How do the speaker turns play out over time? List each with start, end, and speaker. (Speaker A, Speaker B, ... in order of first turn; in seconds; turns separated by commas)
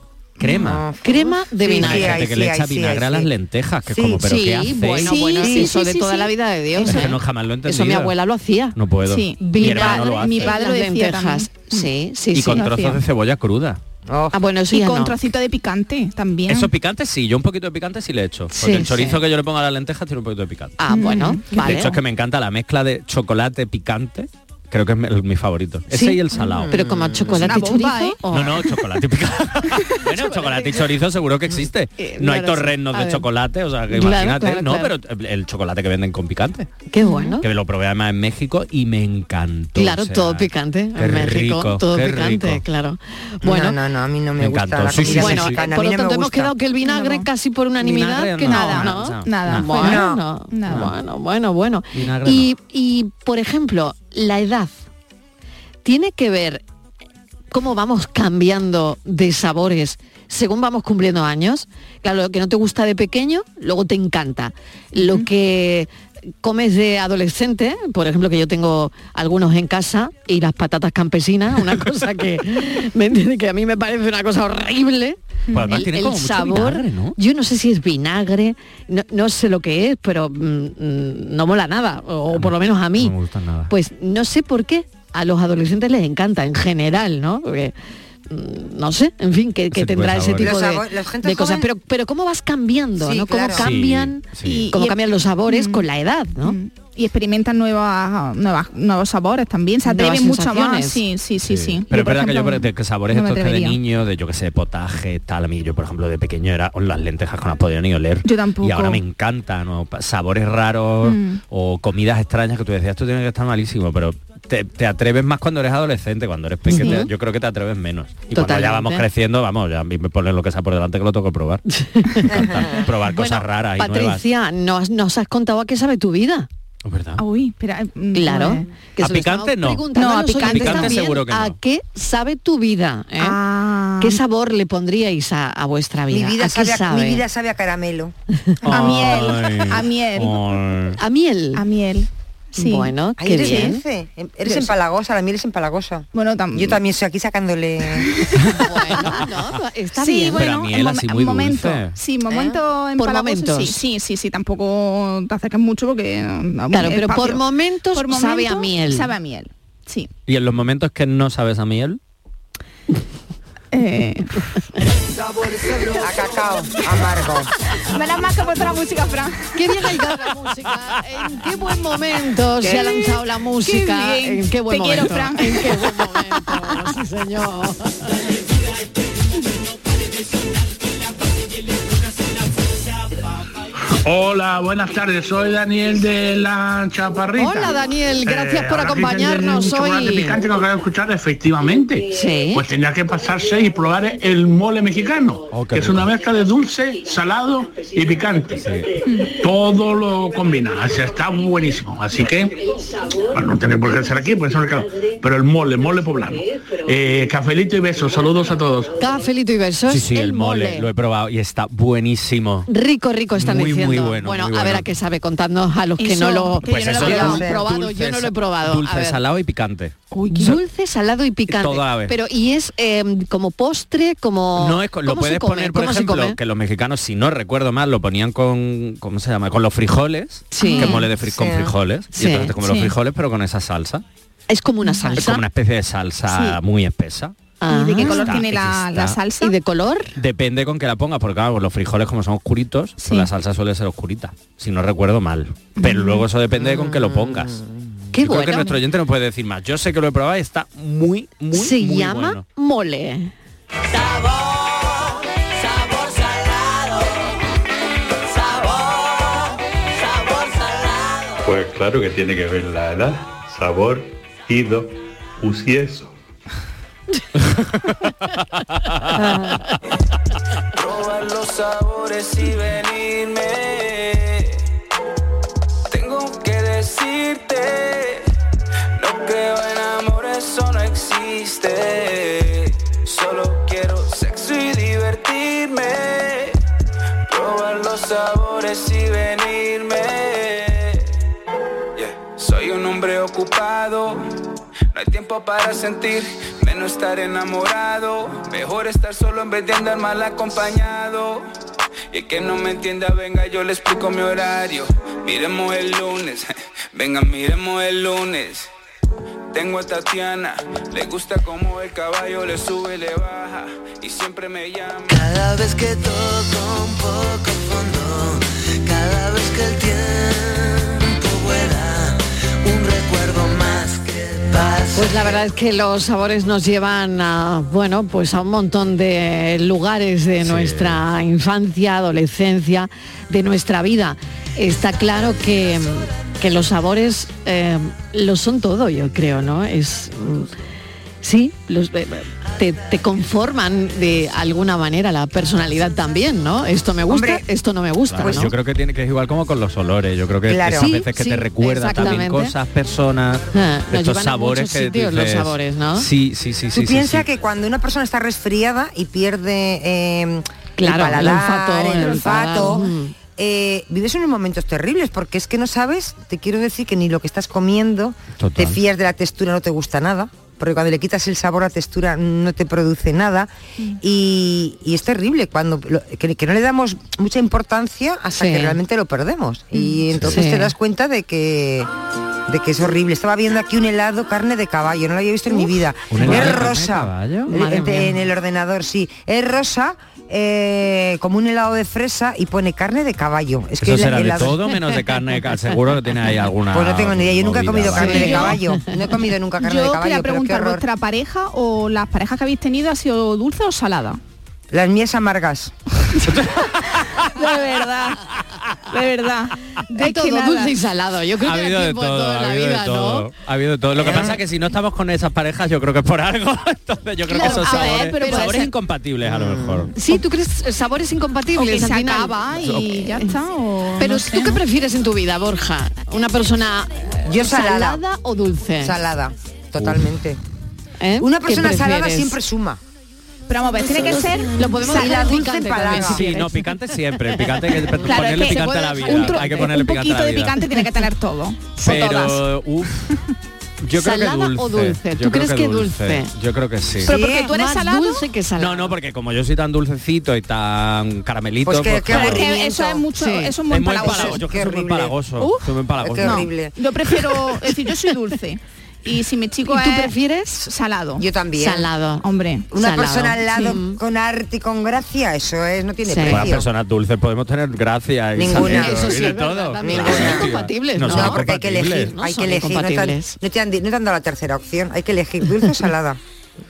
Speaker A: 0.4-0.8, Speaker B: 0.4-3.3, Speaker C: 1.0-2.2, Speaker A: 1.8-5.5, Speaker B: 3.9-4.2, Speaker C: 4.2-8.8, Speaker D: 5.0-7.1, Speaker A: 6.8-8.1, Speaker A: 8.7-10.6, Speaker D: 9.1-11.9, Speaker C: 9.4-12.8, Speaker A: 12.3-13.8, Speaker D: 12.6-12.9, Speaker B: 14.1-14.3, Speaker C: 14.3-15.2, Speaker D: 14.7-16.7, Speaker A: 16.5-20.8, Speaker C: 18.5-19.2, Speaker C: 20.8-21.9, Speaker D: 20.9-21.8, Speaker A: 21.5-26.8, Speaker C: 25.9-28.6, Speaker B: 26.4-27.5, Speaker D: 27.4-28.2, Speaker A: 28.3-36.8, Speaker C: 32.0-33.2, Speaker C: 33.9-34.9, Speaker C: 36.9-37.4, Speaker D: 37.0-37.4, Speaker A: 37.4-42.6, Speaker C: 39.8-43.8, Speaker B: 43.4-46.5, Speaker A: 44.4-45.6, Speaker C: 45.0-54.8, Speaker D: 46.8-47.3, Speaker A: 47.8-50.0, Speaker D: 48.5-50.9, Speaker B: 49.8-50.2, Speaker A: 50.7-50.9, Speaker A: 51.9-52.5, Speaker C: 55.8-56.6, Speaker C: 57.5-65.9, Speaker D: 65.0-65.3, Speaker C: 66.4-83.1, Speaker A: 75.5-77.2, Speaker A: 82.3-83.7, Speaker C: 83.7-87.7, Speaker C: 88.3-96.6, Speaker A: 89.7-90.5, Speaker B: 90.4-91.7, Speaker B: 93.0-93.7, Speaker A: 93.6-94.7, Speaker D: 94.4-95.8, Speaker D: 96.4-103.8, Speaker C: 99.8-101.0, Speaker A: 101.4-124.2, Speaker D: 108.2-109.0, Speaker D: 111.0-111.4, Speaker C: 116.7-117.1, Speaker C: 118.3-119.0, Speaker C: 121.7-122.6, Speaker B: 122.3-122.6, Speaker C: 123.1-126.5, Speaker A: 126.8-127.2, Speaker D: 127.2-128.7, Speaker C: 128.1-133.4, Speaker A: 129.0-131.6, Speaker D: 129.9-131.0, Speaker D: 133.2-134.2, Speaker C: 134.0-137.2, Speaker B: 136.1-138.1, Speaker A: 138.6-141.0, Speaker D: 138.7-140.4, Speaker B: 138.8-139.2, Speaker C: 141.0-141.6, Speaker D: 141.5-143.7, Speaker C: 142.5-143.8, Speaker B: 143.2-148.1, Speaker D: 144.4-144.7, Speaker D: 146.1-146.8, Speaker C: 148.6-150.4, Speaker D: 150.0-160.1, Speaker A: 150.4-152.0, Speaker C: 153.0-153.8, Speaker C: 156.7-159.1, Speaker A: 160.3-162.0, Speaker D: 163.7-164.4, Speaker B: 165.9-167.5, Speaker D: 167.9-169.6, Speaker C: 169.5-177.9, Speaker D: 172.6-176.2, Speaker E: 184.0-198.6, Speaker C: 187.3-190.4, Speaker C: 192.1-192.6, Speaker A: 195.5-196.1, Speaker A: 198.5-198.9, Speaker E: 199.3-202.6, Speaker E: 203.3-208.9, Speaker C: 209.0-210.9, Speaker A: 209.9-212.7, Speaker C: 212.7-219.2, Speaker A: 213.3-214.8, Speaker D: 216.0-217.4, Speaker A: 216.6-220.6, Speaker B: 217.0-217.7, Speaker C: 220.3-226.4, Speaker A: 221.5-222.1, Speaker A: 224.6-234.0, Speaker C: 230.5-231.0, Speaker D: 230.6-231.0, Speaker B: 231.3-231.7, Speaker C: 232.1-232.9, Speaker C: 234.5-235.4, Speaker D: 234.8-235.2, Speaker A: 235.1-239.2, Speaker D: 236.3-236.6, Speaker C: 237.6-238.4, Speaker D: 237.7-239.5, Speaker C: 239.4-240.1, Speaker A: 240.2-247.6, Speaker D: 243.0-243.3, Speaker D: 245.8-246.2, Speaker B: 246.6-247.6, Speaker C: 248.1-248.8, Speaker A: 248.2-252.4, Speaker C: 251.5-253.3, Speaker F: 261.4-266.2, Speaker G: 270.8-274.6, Speaker G: 275.9-278.3, Speaker G: 279.0-286.6, Speaker G: 287.3-291.1, Speaker G: 291.9-294.2, Speaker G: 294.9-301.4, Speaker G: 302.1-308.7, Speaker G: 309.5-315.3, Speaker H: 315.2-325.2, Speaker C: 324.9-340.5, Speaker A: 330.4-331.0, Speaker C: 341.2-348.5, Speaker B: 347.1-347.4, Speaker A: 348.1-357.3, Speaker B: 348.2-348.5, Speaker B: 350.5-351.0, Speaker C: 350.8-352.5, Speaker C: 353.5-356.1, Speaker B: 356.7-373.5, Speaker C: 360.8-363.1, Speaker A: 368.4-368.8, Speaker B: 374.0-381.9, Speaker C: 378.3-378.8, Speaker C: 380.2-380.7, Speaker B: 382.5-394.6, Speaker A: 386.1-387.5, Speaker C: 386.2-386.8, Speaker C: 387.5-388.1, Speaker A: 393.8-398.6, Speaker B: 396.7-400.8, Speaker C: 397.9-398.8, Speaker D: 399.6-404.2, Speaker B: 404.7-405.7, Speaker A: 406.2-406.7, Speaker D: 407.2-408.2, Speaker D: 408.9-410.7, Speaker C: 409.9-413.3, Speaker A: 411.4-420.0, Speaker B: 413.9-414.4, Speaker D: 417.3-418.7, Speaker C: 417.3-418.5, Speaker B: 419.2-419.9, Speaker C: 419.9-423.2, Speaker D: 421.6-424.6, Speaker A: 422.6-423.0, Speaker C: 424.0-429.0, Speaker B: 427.2-428.0, Speaker B: 428.8-430.4, Speaker C: 431.0-432.4, Speaker B: 431.2-432.8, Speaker D: 433.5-434.8, Speaker C: 434.0-436.6, Speaker B: 434.8-436.2, Speaker A: 435.9-440.8, Speaker D: 438.0-442.4, Speaker A: 441.8-443.0, Speaker A: 443.8-447.1, Speaker C: 444.0-446.3, Speaker B: 447.1-447.5, Speaker D: 447.1-448.2, Speaker C: 447.2-448.9, Speaker A: 448.6-452.5, Speaker B: 451.6-453.1, Speaker D: 452.1-454.4, Speaker C: 453.1-453.5, Speaker A: 453.7-456.5, Speaker B: 453.9-455.1, Speaker D: 455.4-455.6, Speaker B: 456.0-456.7, Speaker D: 456.2-461.2, Speaker C: 459.6-460.7, Speaker B: 461.2-461.9, Speaker C: 461.6-462.2, Speaker D: 462.2-462.7, Speaker B: 462.7-466.6, Speaker C: 462.8-464.0, Speaker D: 463.5-463.8, Speaker C: 466.1-466.4, Speaker A: 466.3-472.1, Speaker B: 468.4-470.5, Speaker C: 468.5-473.3, Speaker B: 471.1-476.2